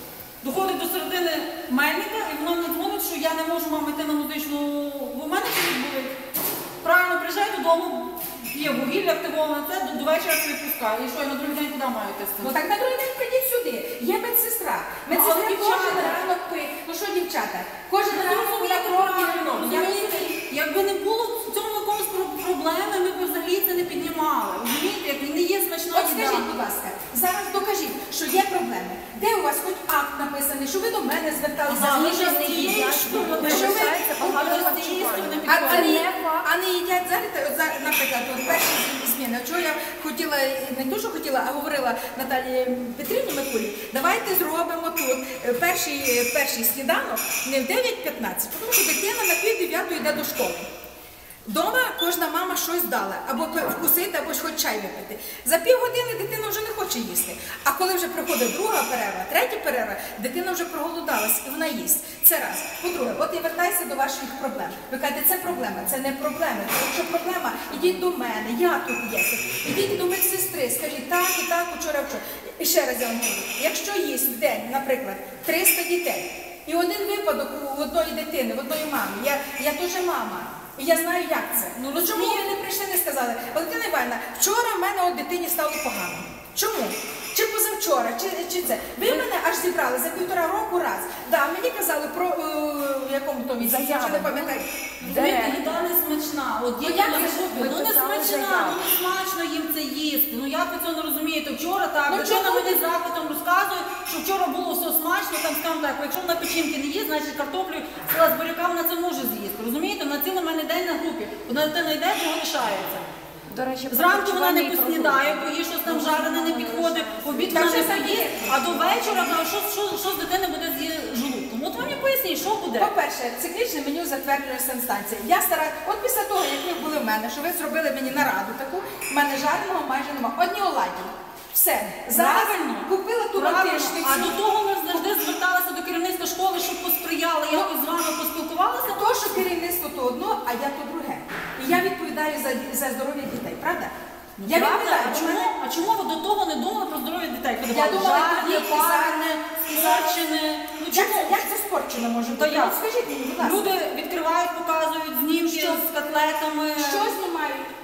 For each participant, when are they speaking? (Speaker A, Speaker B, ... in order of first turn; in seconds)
Speaker A: 0.4-6.2, 6.8-12.6, 15.1-16.2, 18.1-26.5, 31.7-36.0, 81.7-82.5, 95.0-113.0, 113.9-122.9, 132.1-139.4, 144.4-151.5, 152.3-152.8, 153.4-157.2
Speaker B: 12.4-20.3, 25.9-34.8, 35.5-50.7, 51.5-94.7, 96.9-97.3, 102.1-102.8, 117.5-119.4, 122.8-134.3, 138.9-143.9, 144.4-145.5, 147.7-150.2, 150.9-153.7, 155.4-155.8, 156.8-157.7
Speaker C: 32.0-36.5, 93.6-95.8, 96.9-98.8, 113.5-118.3